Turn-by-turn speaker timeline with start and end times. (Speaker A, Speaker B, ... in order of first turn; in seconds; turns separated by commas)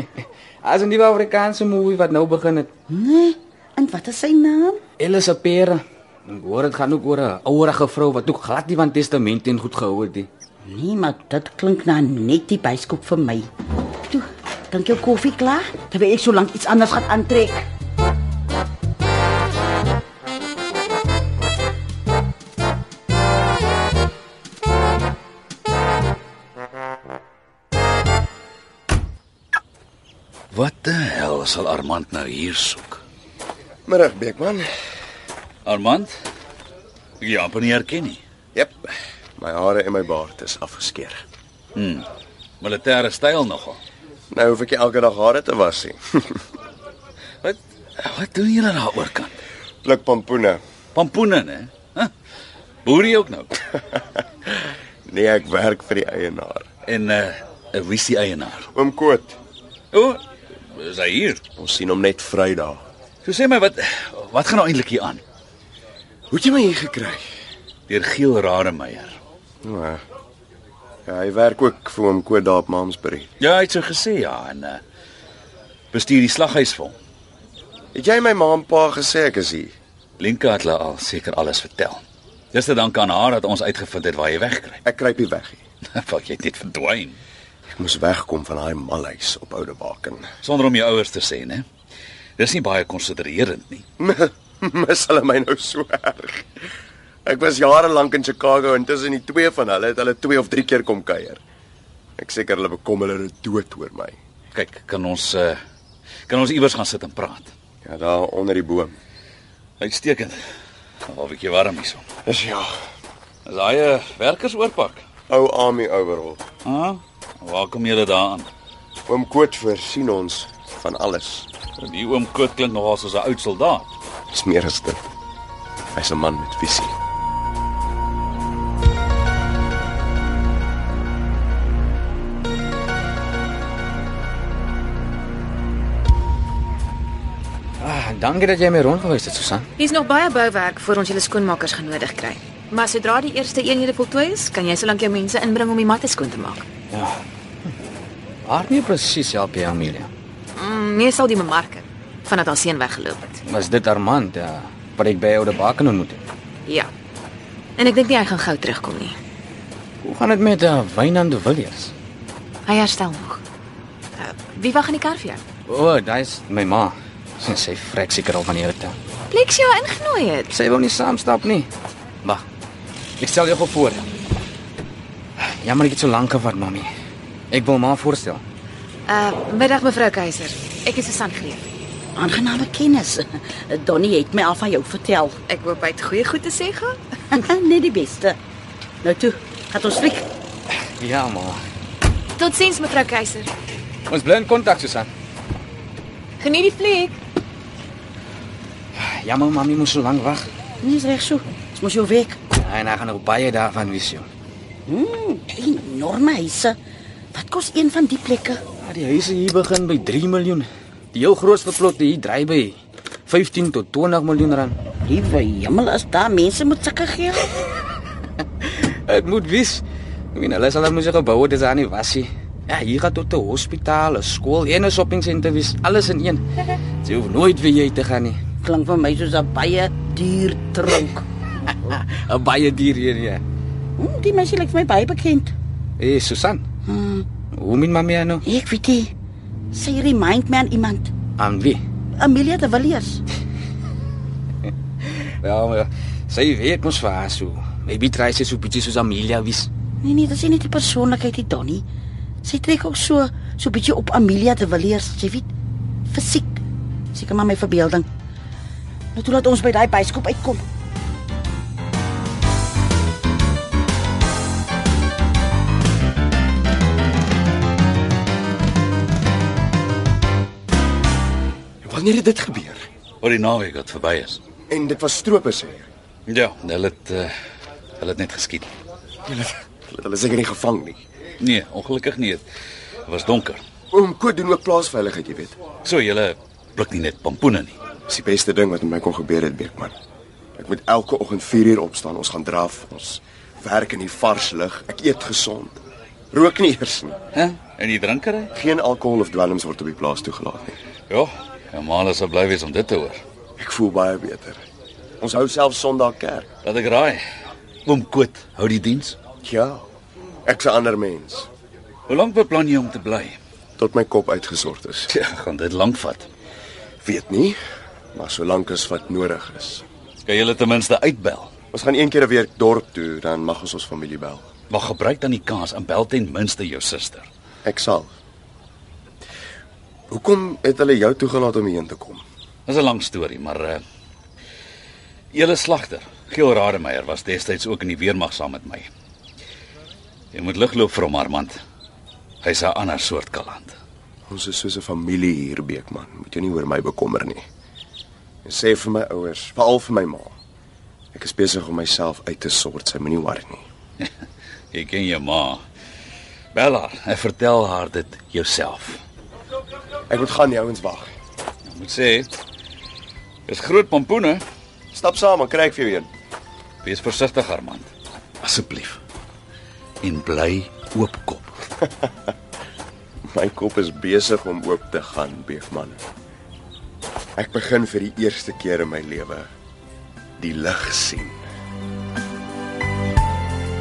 Speaker A: 0.6-2.7, Speaker B: 2.9-4.8, Speaker A: 5.0-10.3, Speaker B: 10.7-13.5, Speaker B: 14.1-17.6, Speaker C: 30.5-33.0, Speaker D: 33.9-34.7, Speaker C: 35.6-36.1, Speaker C: 37.2-38.2, Speaker D: 38.5-38.8, Speaker D: 39.4-41.2, Speaker C: 41.7-42.0, Speaker C: 42.6-43.8, Speaker D: 44.3-46.4, Speaker C: 47.4-49.4, Speaker D: 49.8-50.6, Speaker C: 50.9-52.1, Speaker C: 52.8-53.5, Speaker D: 55.1-56.6, Speaker C: 56.9-58.7, Speaker D: 58.7-59.4, Speaker C: 59.9-60.2, Speaker C: 60.7-61.4, Speaker D: 61.5-62.8, Speaker C: 63.2-65.2, Speaker D: 66.3-67.2, Speaker C: 67.9-69.2, Speaker D: 69.6-70.0, Speaker D: 71.1-73.3, Speaker C: 73.4-74.8, Speaker C: 75.9-77.0, Speaker D: 77.9-79.7, Speaker C: 80.2-84.8, Speaker D: 84.8-85.6, Speaker C: 85.9-87.2, Speaker D: 87.8-90.3, Speaker C: 90.4-91.6, Speaker C: 92.4-93.8, Speaker D: 94.0-96.6, Speaker D: 97.2-101.4, Speaker D: 102.2-104.2, Speaker C: 104.5-105.6, Speaker C: 106.3-107.5, Speaker D: 107.8-109.0, Speaker C: 109.8-110.4, Speaker C: 111.1-112.0, Speaker D: 112.2-112.7, Speaker C: 113.5-115.0, Speaker D: 115.3-116.4, Speaker C: 116.6-118.5, Speaker D: 119.1-121.5, Speaker C: 121.8-123.9, Speaker D: 124.3-125.0, Speaker D: 125.9-126.9, Speaker A: 137.8-139.7, Speaker E: 139.8-146.7, Speaker A: 148.4-150.1, Speaker E: 150.6-153.4, Speaker A: 153.5-156.2, Speaker E: 157.8-159.2, Speaker A: 160.0-161.9, Speaker E: 162.7-163.4, Speaker E: 164.2-165.4, Speaker A: 165.7-168.9, Speaker E: 169.3-170.6, Speaker A: 170.5-171.7, Speaker A: 173.2-174.0, Speaker A: 175.6-176.9, Speaker A: 177.5-178.4, Speaker E: 179.1-181.6, Speaker B: 182.2-185.4, Speaker E: 185.5-186.9, Speaker B: 187.3-188.4, Speaker B: 189.0-190.2, Speaker A: 191.0-191.6, Speaker E: 192.4-193.5, Speaker A: 194.1-195.1, Speaker E: 196.4-197.2, Speaker A: 199.0-200.4, Speaker B: 200.8-202.4, Speaker A: 202.6-204.3, Speaker B: 204.9-206.8, Speaker B: 207.3-208.6, Speaker A: 208.8-212.8, Speaker A: 213.3-214.8, Speaker B: 215.1-217.5, Speaker A: 218.6-219.8, Speaker A: 220.3-226.4, Speaker A: 227.0-228.4, Speaker B: 228.6-231.2, Speaker A: 231.9-233.4, Speaker B: 234.0-235.5, Speaker A: 236.0-236.6, Speaker B: 236.9-237.2, Speaker A: 237.5-238.4, Speaker B: 238.4-239.1, Speaker B: 239.7-241.1, Speaker A: 241.4-241.8, Speaker B: 242.2-243.2, Speaker A: 245.4-249.7, Speaker B: 250.0-251.8, Speaker B: 252.4-255.5, Speaker B: 256.1-256.6, Speaker B: 257.1-258.1, Speaker B: 259.1-260.6, Speaker D: 271.8-272.8, Speaker C: 273.2-274.4, Speaker D: 274.7-275.9, Speaker C: 276.3-277.3, Speaker C: 278.0-278.7, Speaker D: 279.2-281.0, Speaker C: 281.4-282.4, Speaker C: 283.1-283.6, Speaker D: 283.9-285.6, Speaker C: 285.8-287.8, Speaker D: 288.1-289.9, Speaker D: 290.6-297.2, Speaker C: 297.3-298.5, Speaker D: 298.5-300.8, Speaker C: 301.1-303.2, Speaker D: 303.6-304.6, Speaker D: 305.2-306.5, Speaker C: 306.6-307.2, Speaker C: 307.8-309.1, Speaker D: 309.4-309.8, Speaker D: 310.4-311.5, Speaker C: 312.1-313.4, Speaker D: 313.8-315.1, Speaker C: 315.1-316.3, Speaker D: 317.0-317.6, Speaker D: 318.1-319.8, Speaker C: 320.2-321.5, Speaker D: 321.7-324.4, Speaker C: 324.7-327.3, Speaker D: 327.6-328.1, Speaker D: 330.1-332.2, Speaker C: 332.7-333.8, Speaker C: 335.3-338.9, Speaker C: 340.3-341.6, Speaker C: 342.4-343.8, Speaker D: 344.3-347.4, Speaker D: 348.4-350.4, Speaker D: 351.1-353.6, Speaker C: 354.7-355.6, Speaker C: 356.5-359.0, Speaker D: 360.1-361.1, Speaker C: 361.6-362.3, Speaker C: 363.5-364.4, Speaker D: 364.9-366.1, Speaker C: 366.8-367.9, Speaker C: 368.4-369.0, Speaker C: 370.0-371.6, Speaker D: 373.3-376.0, Speaker D: 377.4-379.5, Speaker D: 380.4-381.4